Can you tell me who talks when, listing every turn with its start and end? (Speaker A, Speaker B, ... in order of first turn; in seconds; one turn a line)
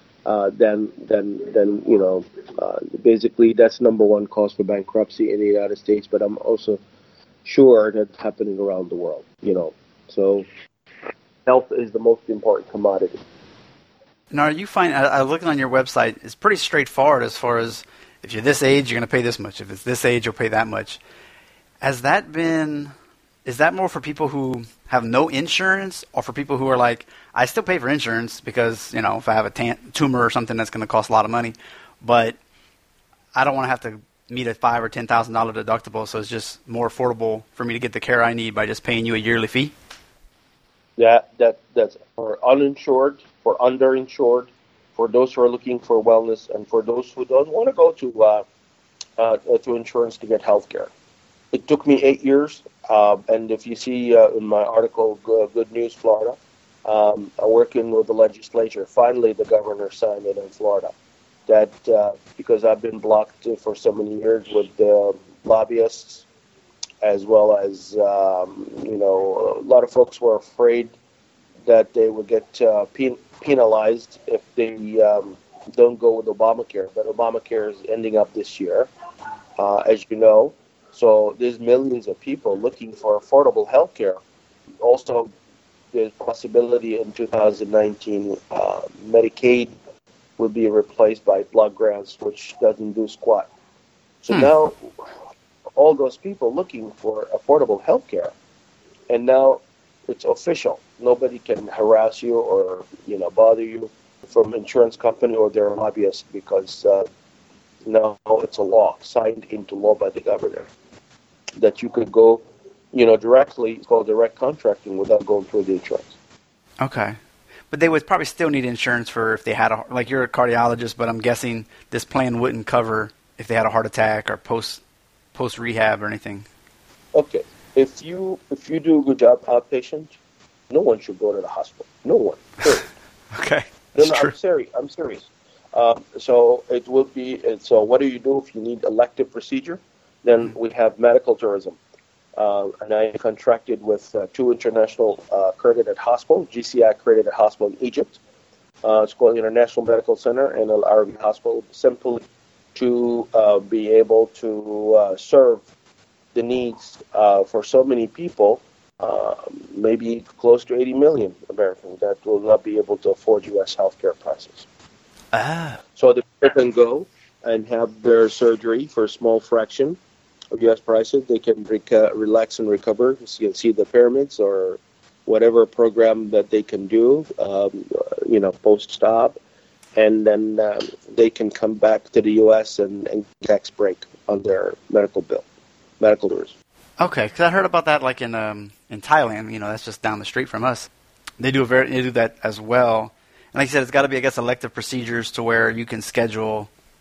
Speaker A: 0.2-6.8
Speaker A: 7.4-10.5
Speaker A: 11.4-13.2
Speaker B: 14.3-21.0
Speaker B: 21.8-22.9
Speaker B: 23.4-32.4
Speaker B: 33.3-39.7
Speaker A: 41.0-48.4
Speaker A: 49.2-50.9
Speaker A: 51.5-60.9
Speaker A: 61.5-66.2
Speaker A: 67.0-70.9
Speaker A: 71.7-78.9
Speaker A: 79.6-84.2
Speaker A: 84.8-85.3
Speaker A: 85.9-89.7
Speaker A: 90.4-93.5
Speaker A: 94.2-94.9
Speaker A: 95.8-98.3
Speaker A: 99.1-107.0
Speaker A: 107.8-110.7
Speaker A: 111.6-116.1
Speaker B: 116.8-117.2
Speaker B: 117.7-124.8
Speaker B: 125.3-126.5
Speaker A: 127.1-130.2
Speaker A: 130.7-132.8
Speaker B: 133.3-134.3
Speaker A: 133.9-141.8
Speaker A: 142.4-148.2
Speaker A: 148.8-155.7
Speaker A: 156.3-164.7
Speaker B: 165.3-165.8
Speaker A: 165.9-170.0
Speaker A: 170.5-179.4
Speaker A: 179.9-185.4
Speaker A: 186.0-186.5
Speaker B: 187.0-196.7